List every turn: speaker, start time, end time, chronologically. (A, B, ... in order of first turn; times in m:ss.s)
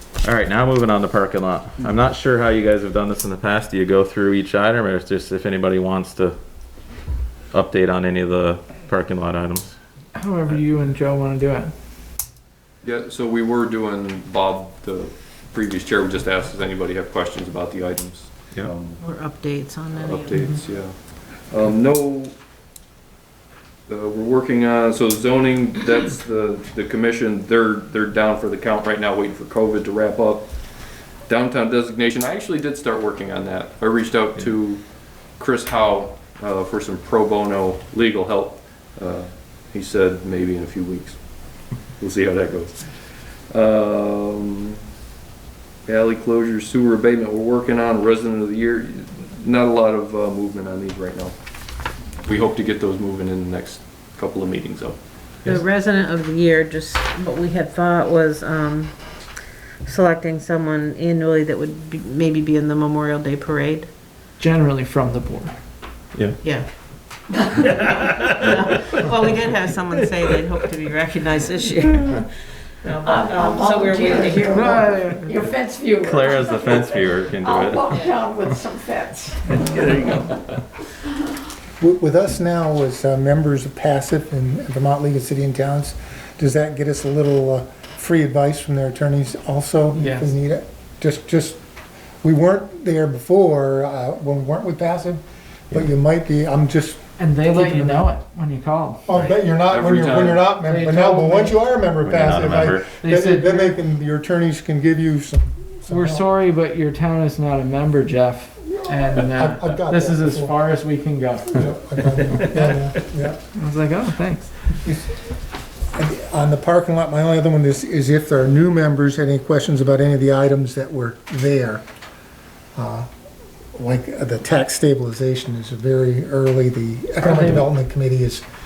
0:00.2-0:06.4 A
0:07.5-0:09.7 A
0:10.1-0:11.7 B
0:12.8-0:19.0 C
0:19.0-0:20.6 D
0:19.9-0:22.3 C
0:23.9-0:30.5 C
0:31.2-0:44.8 C
0:45.8-0:51.4 C
0:52.2-0:55.5 C
0:55.5-0:59.0 D
0:59.8-1:03.9 D
1:04.4-1:05.5 B
1:06.4-1:06.7 D
1:07.3-1:12.2 D
1:12.8-1:15.1 D
1:14.4-1:15.3 B
1:15.2-1:19.2 E
1:16.0-1:18.0 A
1:21.8-1:31.6 F
1:29.9-1:30.3 B
1:32.2-1:38.0 F
1:37.2-1:39.1 B
1:39.1-1:46.3 F
1:39.5-1:40.5 C
1:40.6-1:41.6 B
1:42.0-1:43.0 A
1:43.0-1:43.7 B
1:45.9-1:51.6 B
1:49.1-1:50.6 F
1:51.5-1:53.4 F
1:53.5-1:54.6 B
1:54.8-1:55.1 F
1:55.9-2:01.8 F
2:02.8-2:03.1 F
2:03.7-2:08.4 F
2:07.2-2:07.7 B